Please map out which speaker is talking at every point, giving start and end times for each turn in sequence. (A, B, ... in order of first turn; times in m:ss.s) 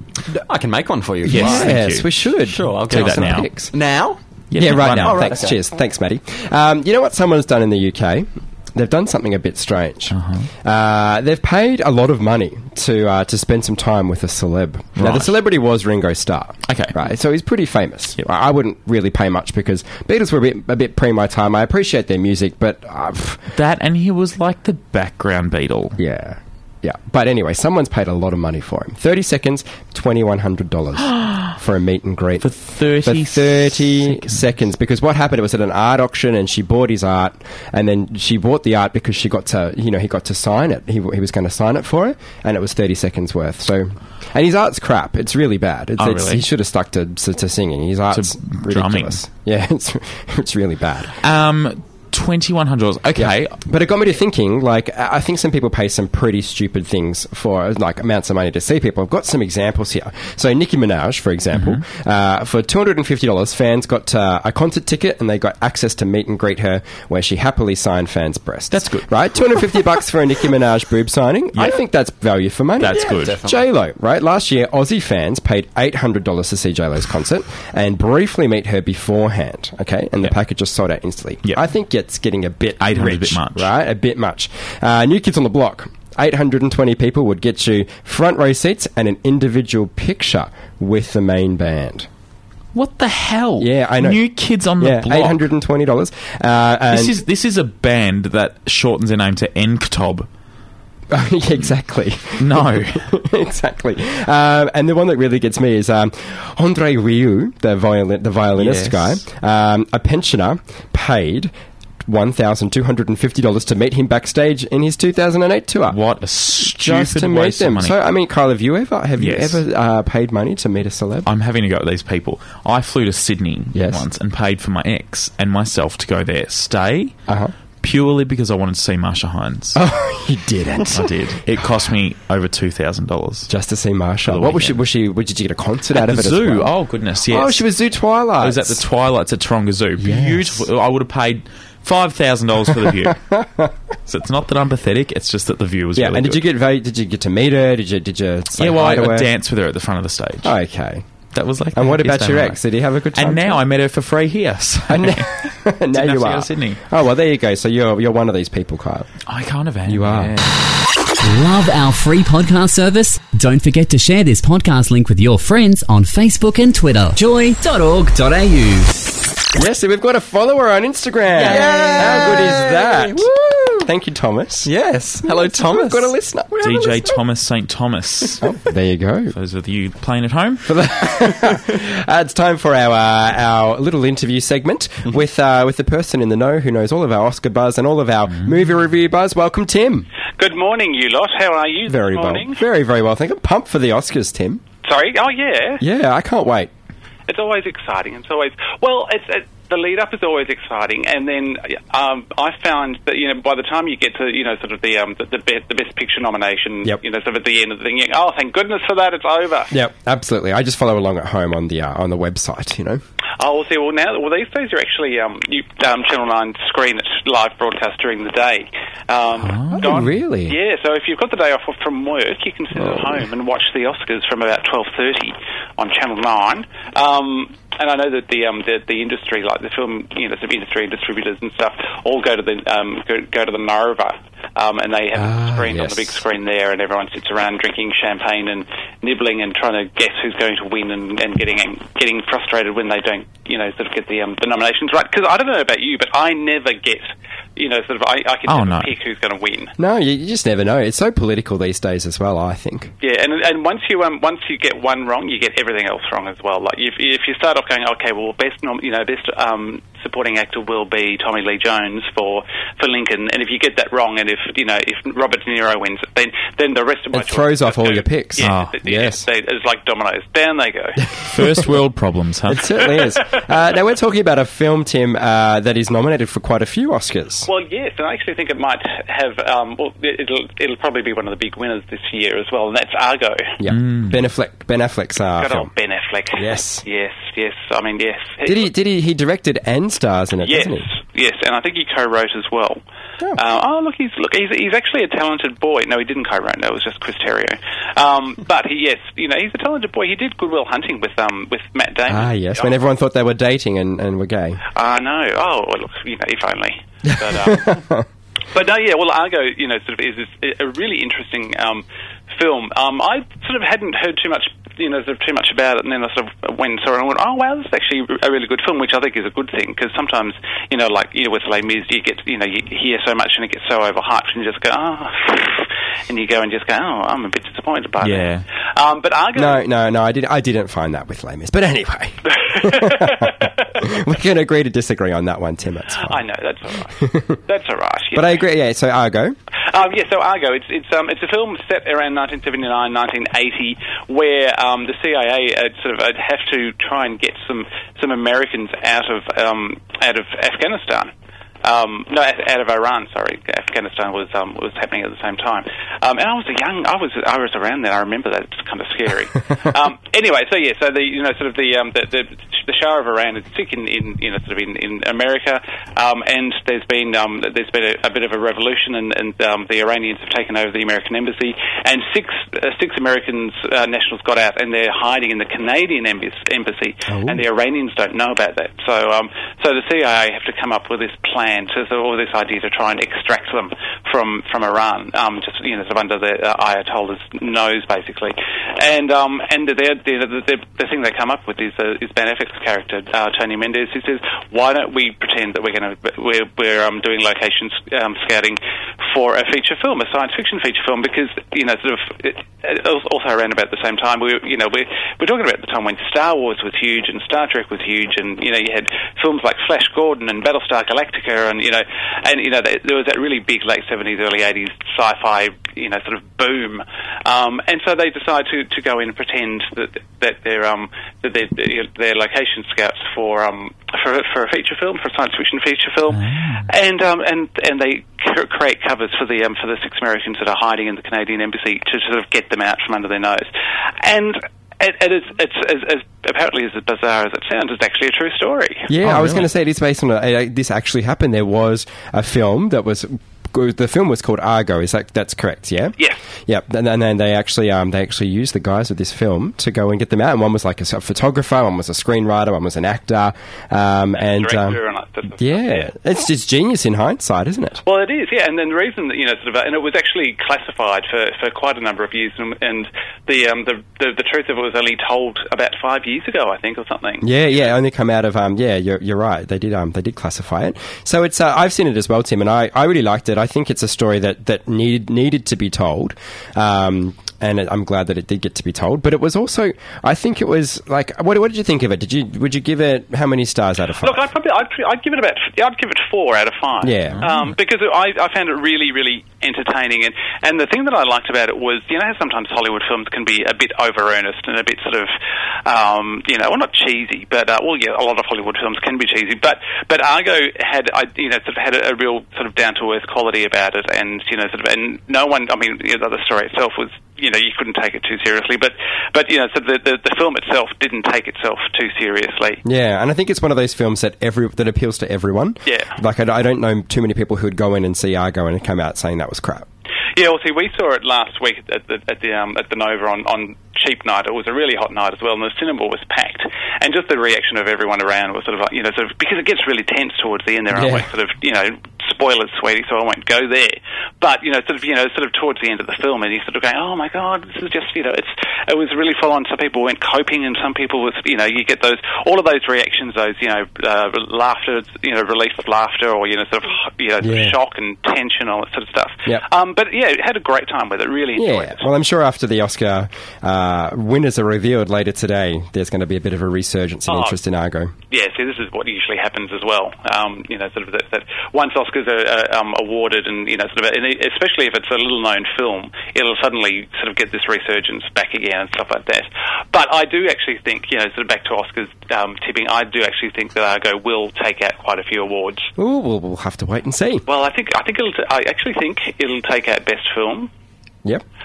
0:00.4-0:01.8 A
0:01.2-0:02.1 B
0:01.2-0:03.7 C
0:02.5-0:05.6 A
0:02.8-0:03.5 B
0:04.5-0:05.3 B
0:04.6-0:23.4 C
0:10.1-0:10.5 B
0:15.0-0:15.3 B
0:16.7-0:16.9 B
0:23.5-0:26.0 B
0:26.0-0:32.5 C
0:31.1-0:31.5 B
0:32.4-0:34.4 B
0:33.0-0:51.2 C
0:46.0-0:46.4 B
0:48.1-0:49.2 B
0:51.2-0:53.6 B
0:53.1-1:32.1 C
1:01.5-1:01.8 B
1:08.7-1:09.1 B
1:12.8-1:13.4 B
1:12.8-1:13.6 A
1:22.8-1:23.7 B
1:32.7-1:35.4 B
1:33.6-1:34.2 C
1:34.8-1:37.2 C
1:36.9-1:40.3 B
1:41.1-1:51.5 C
1:42.4-1:43.1 B
1:48.6-1:49.2 B
1:52.0-1:56.0 C
1:55.9-1:58.0 B
1:56.6-2:01.3 C
1:59.2-1:59.6 B
2:01.2-2:07.2 B
2:03.7-2:04.0 C
2:07.3-2:07.5 C
2:07.8-2:09.8 B
2:09.7-2:11.5 C
2:10.9-2:13.5 B
2:13.5-2:16.7 C
2:14.2-2:14.8 B
2:15.9-2:17.6 B
2:17.3-2:18.8 C
2:18.4-2:23.2 B
2:20.0-2:20.6 C
2:22.7-2:23.7 C
2:24.1-2:26.4 B
2:25.9-2:29.3 C
2:28.6-2:30.5 B
2:30.4-2:31.0 C
2:31.3-2:32.6 B
2:31.7-2:33.6 C
2:33.1-2:36.8 B
2:34.9-2:39.1 C
2:39.3-2:40.6 B
2:39.8-2:40.3 C
2:41.2-2:49.0 D
2:49.5-2:54.7 C
2:51.3-2:53.8 A
2:54.6-2:57.1 A
2:55.2-2:56.9 C
2:56.6-2:58.5 B
2:58.4-2:59.4 C
2:59.3-3:00.7 B
3:00.6-3:10.1 C
3:08.3-3:08.6 B
3:10.4-3:12.6 E
3:11.9-3:14.6 C
3:14.8-3:15.8 E
3:15.8-3:16.7 C
3:17.3-3:29.7 E
3:29.7-3:33.0 C
3:33.4-4:09.7 E
3:39.4-3:40.1 B
3:39.8-3:40.6 C
3:55.1-3:56.2 C
4:08.5-4:08.9 B
4:09.8-4:12.9 C
4:13.0-4:31.0 E
4:27.1-4:29.2 C
4:28.4-4:28.8 B
4:31.2-4:32.7 B
4:32.5-4:37.5 C
4:37.4-4:43.6 E
4:43.6-4:45.7 C
4:43.7-4:44.2 B
4:45.4-4:48.7 E
4:46.4-4:46.8 C
4:48.4-4:50.9 C
4:50.4-4:52.8 E
4:53.3-5:02.7 E
5:02.1-5:04.6 C
5:04.7-5:07.8 E
5:07.1-5:08.0 C
5:08.5-5:29.6 E
5:28.0-5:28.4 B
5:29.3-5:36.2 C
5:32.3-5:33.8 E
5:36.0-5:38.4 E
5:38.1-5:39.4 C
5:39.7-5:51.1 E
5:51.6-7:18.9 E
6:17.1-6:17.4 C
7:06.1-7:06.7 B
7:18.9-7:25.9 C
7:19.0-7:19.4 B
7:26.5-7:34.8 C
7:34.2-7:35.9 E
7:35.4-7:37.8 C
7:37.8-7:47.7 E
7:47.2-8:04.2 C
8:04.0-8:15.1 E
8:06.8-8:07.2 C
8:07.1-8:07.5 B
8:15.6-8:32.6 E
8:32.6-8:39.6 C
8:35.6-8:35.9 E
8:40.1-9:11.8 E
8:50.7-8:51.1 C
9:07.2-9:07.6 C
9:11.4-9:17.9 C
9:17.1-9:17.4 E
9:18.1-9:35.7 E
9:35.8-9:37.2 C
9:37.2-9:40.5 E